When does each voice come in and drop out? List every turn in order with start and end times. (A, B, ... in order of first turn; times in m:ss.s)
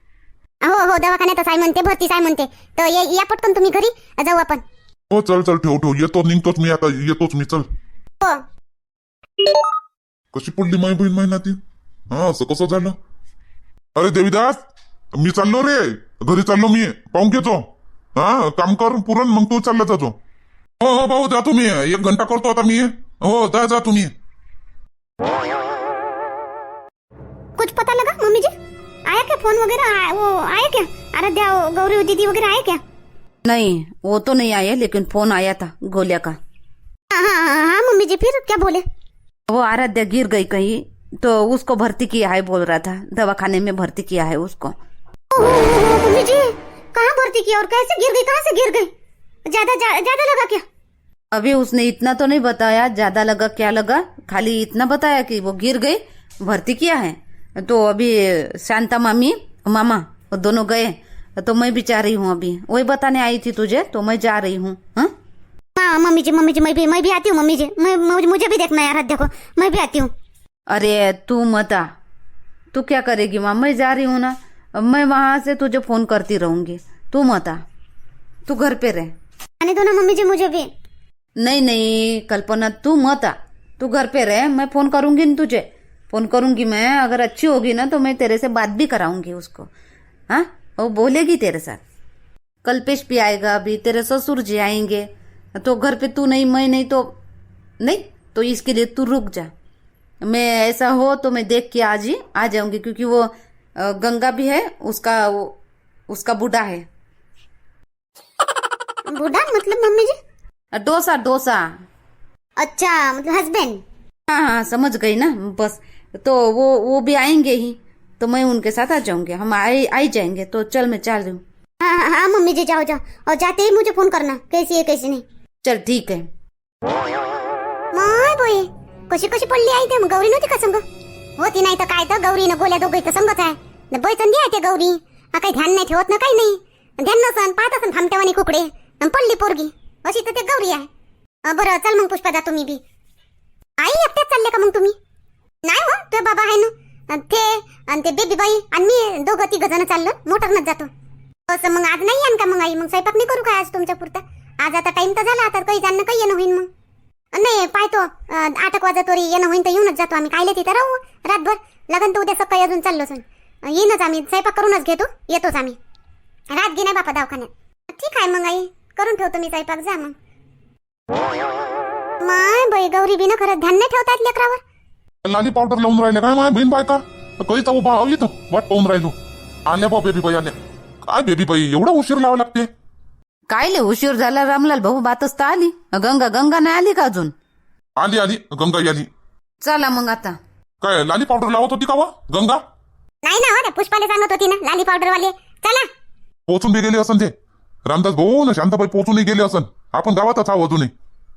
0:00.6-0:04.6 A
0:05.1-0:07.7 B
0:10.3-0:11.6 B
0:12.1-0:13.0 B
0:14.0-0:17.6 B
0:18.2-0:20.2 B
0:20.8-0:24.1 B
0:27.6-0:28.5 A
0:29.1-0:32.8 A
0:33.4-0:36.4 C
0:37.1-0:38.8 A
0:39.5-0:44.8 C
0:45.3-0:48.9 A
0:49.5-0:50.6 A
0:51.3-1:05.1 C
1:05.8-1:10.1 A
1:10.7-1:11.9 C
1:12.7-1:17.6 C
1:18.5-1:19.2 C
1:19.6-1:20.7 A
1:21.4-1:29.7 C
1:30.3-1:31.8 C
1:32.6-1:37.2 C
1:37.8-1:39.5 C
1:40.2-1:45.6 C
1:46.1-1:46.9 C
1:49.1-1:50.2 A
1:50.7-1:51.7 C
1:52.6-1:53.8 A
1:54.3-2:01.4 C
2:01.8-2:05.2 A
2:05.6-2:06.3 C
2:07.9-2:10.8 A
2:11.4-2:20.9 A
2:21.4-2:22.8 A
2:23.8-2:25.0 A
2:25.6-2:30.9 A
2:31.5-2:36.7 A
2:37.3-2:45.8 A
2:46.5-2:50.2 A
2:52.2-2:54.6 A
2:55.2-3:02.7 B
3:03.5-3:07.3 C
3:08.0-3:09.1 B
3:09.6-3:10.4 C
3:10.8-3:12.6 B
3:13.2-3:15.9 A
3:16.5-3:17.3 B
3:17.9-3:20.9 B